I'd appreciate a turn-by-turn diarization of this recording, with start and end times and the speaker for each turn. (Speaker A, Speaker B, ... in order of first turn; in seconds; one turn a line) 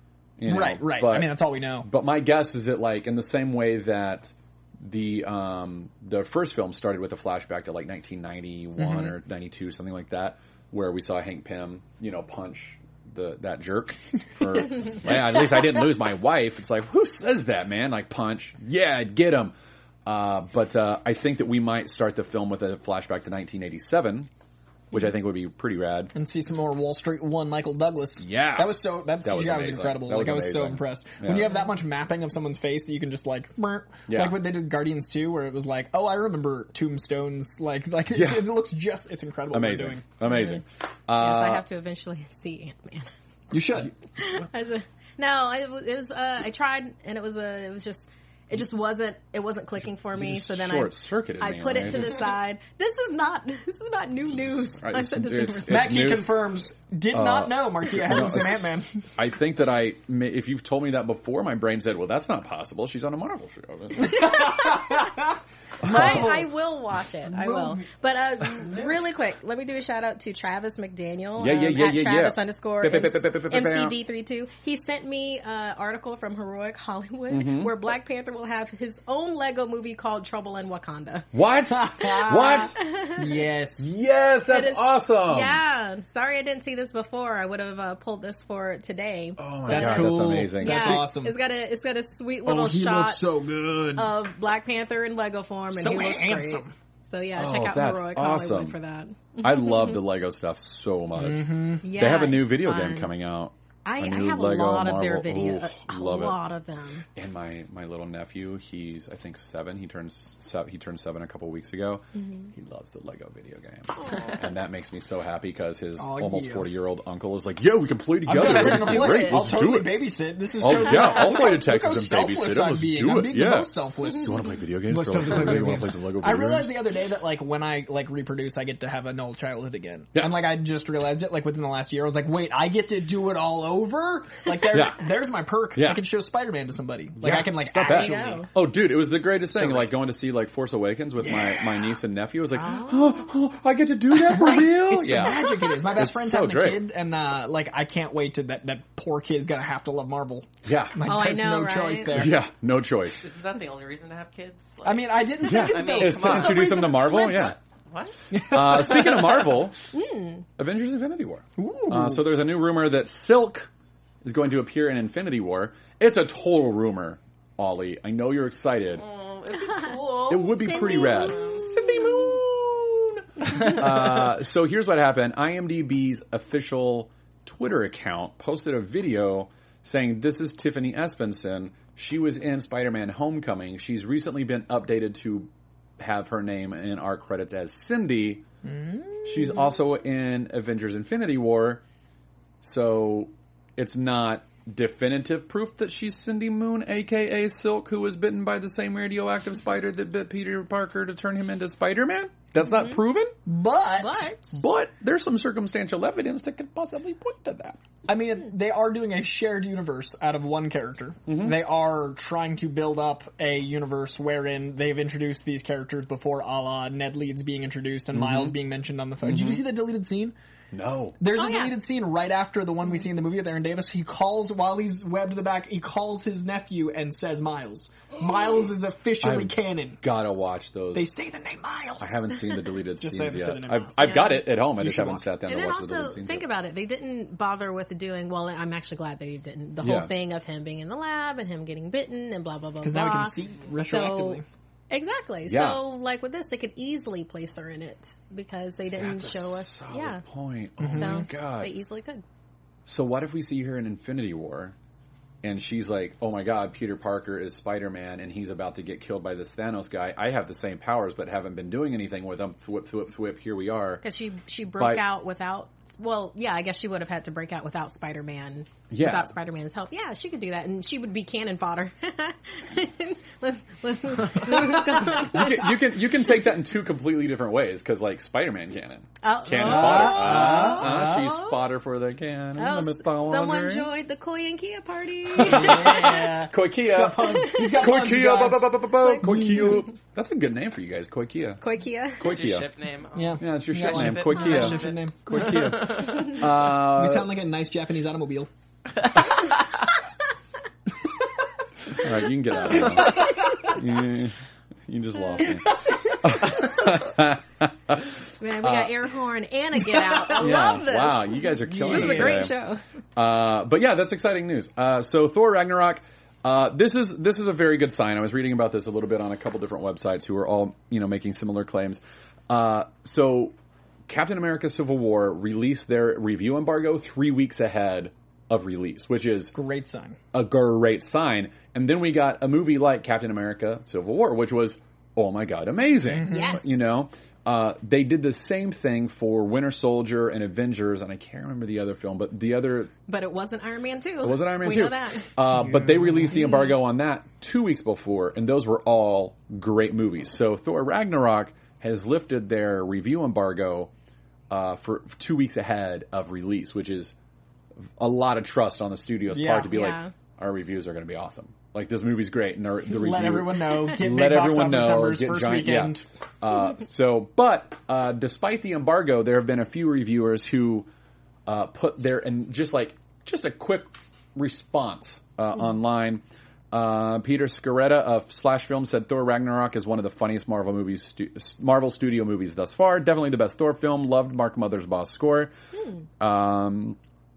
Speaker A: 0.4-19.5
Speaker B: 0.5-1.9
Speaker B: 8.8-9.1
Speaker A: 20.1-24.3
Speaker A: 24.9-26.1
Speaker B: 26.1-40.0
Speaker A: 28.2-31.6
Speaker A: 34.1-34.4
Speaker A: 38.1-38.6
Speaker A: 39.5-41.6
Speaker C: 40.2-40.6
Speaker C: 41.1-43.1
Speaker B: 43.5-43.9
Speaker C: 44.2-56.1
Speaker A: 50.1-52.2
Speaker A: 54.7-56.5
Speaker B: 55.7-58.9
Speaker A: 57.1-64.4
Speaker B: 64.0-65.3
Speaker C: 64.2-65.1
Speaker A: 65.8-66.4
Speaker B: 65.8-66.5
Speaker C: 65.9-81.3
Speaker B: 67.3-67.8
Speaker A: 71.4-74.0
Speaker A: 77.3-77.8
Speaker A: 81.3-82.8
Speaker B: 81.7-83.9
Speaker C: 82.5-83.2
Speaker A: 83.8-85.6
Speaker C: 84.5-93.2
Speaker A: 89.4-91.1
Speaker B: 89.7-91.3
Speaker B: 92.4-94.1
Speaker C: 93.9-100.0
Speaker B: 95.7-96.7
Speaker A: 97.3-98.8
Speaker A: 99.4-106.4
Speaker B: 101.2-101.8
Speaker C: 101.8-103.1
Speaker C: 103.8-107.0
Speaker A: 107.2-120.1
Speaker C: 112.2-112.5
Speaker B: 116.0-116.7
Speaker B: 118.2-138.4
Speaker C: 118.5-119.3
Speaker A: 120.6-126.8
Speaker A: 134.7-135.1
Speaker A: 135.7-136.0
Speaker A: 137.2-146.9
Speaker C: 137.8-138.5
Speaker B: 139.5-139.9
Speaker B: 141.2-141.7
Speaker C: 142.5-143.3
Speaker B: 144.2-152.3
Speaker A: 150.6-151.0
Speaker C: 151.0-152.3
Speaker A: 152.1-153.2
Speaker D: 153.2-156.9
Speaker B: 154.8-157.4
Speaker A: 155.4-157.6
Speaker C: 156.8-157.5
Speaker D: 157.9-158.2
Speaker B: 158.3-159.5
Speaker A: 158.5-159.8
Speaker C: 159.9-160.4
Speaker A: 160.6-163.7
Speaker B: 161.6-162.2
Speaker A: 164.2-169.0
Speaker D: 168.9-171.7
Speaker A: 170.3-188.4
Speaker C: 170.6-171.5
Speaker B: 188.6-189.5
Speaker A: 189.2-191.8
Speaker A: 192.6-203.3
Speaker C: 202.6-203.0
Speaker B: 203.4-204.3
Speaker C: 204.0-204.6
Speaker A: 204.5-207.8
Speaker B: 208.1-220.3
Speaker A: 211.3-211.6
Speaker A: 218.1-218.5
Speaker A: 219.2-219.7
Speaker A: 220.7-221.2
Speaker B: 221.2-230.0
Speaker C: 221.3-221.8
Speaker A: 229.2-231.1
Speaker B: 230.9-232.2
Speaker A: 232.0-236.4
Speaker B: 232.9-235.3
Speaker C: 234.0-234.4
Speaker C: 235.5-250.2
Speaker A: 239.8-240.1
Speaker B: 242.8-244.4
Speaker A: 245.4-245.8
Speaker A: 249.0-251.7
Speaker B: 250.8-251.2
Speaker C: 250.9-252.2
Speaker A: 252.8-254.7
Speaker A: 255.4-264.0
Speaker C: 264.0-275.8
Speaker A: 264.8-265.0
Speaker A: 268.9-269.3
Speaker A: 275.0-283.9
Speaker C: 279.2-281.5
Speaker B: 279.6-281.3
Speaker C: 282.6-286.3
Speaker B: 285.4-288.7
Speaker A: 285.4-291.6
Speaker C: 287.3-287.9
Speaker C: 289.0-289.9
Speaker C: 291.6-292.3
Speaker A: 292.2-292.7
Speaker D: 292.2-296.3
Speaker B: 293.1-295.8
Speaker A: 293.4-297.3
Speaker B: 296.6-298.5
Speaker A: 301.9-304.4
Speaker B: 303.1-303.4
Speaker A: 304.9-308.1
Speaker C: 308.4-312.8
Speaker A: 308.6-308.9
Speaker A: 310.3-312.5
Speaker B: 311.8-312.5
Speaker A: 313.1-323.5
Speaker A: 324.1-329.5
Speaker B: 329.5-330.2
Speaker A: 330.3-342.9
Speaker B: 336.1-336.6
Speaker C: 336.3-336.7
Speaker C: 343.1-345.3
Speaker A: 344.2-353.9
Speaker B: 345.8-346.3
Speaker A: 354.5-357.1
Speaker A: 358.0-370.9
Speaker B: 359.3-359.7
Speaker C: 359.7-360.1
Speaker B: 362.9-366.1
Speaker A: 371.4-385.5
Speaker A: 386.2-387.0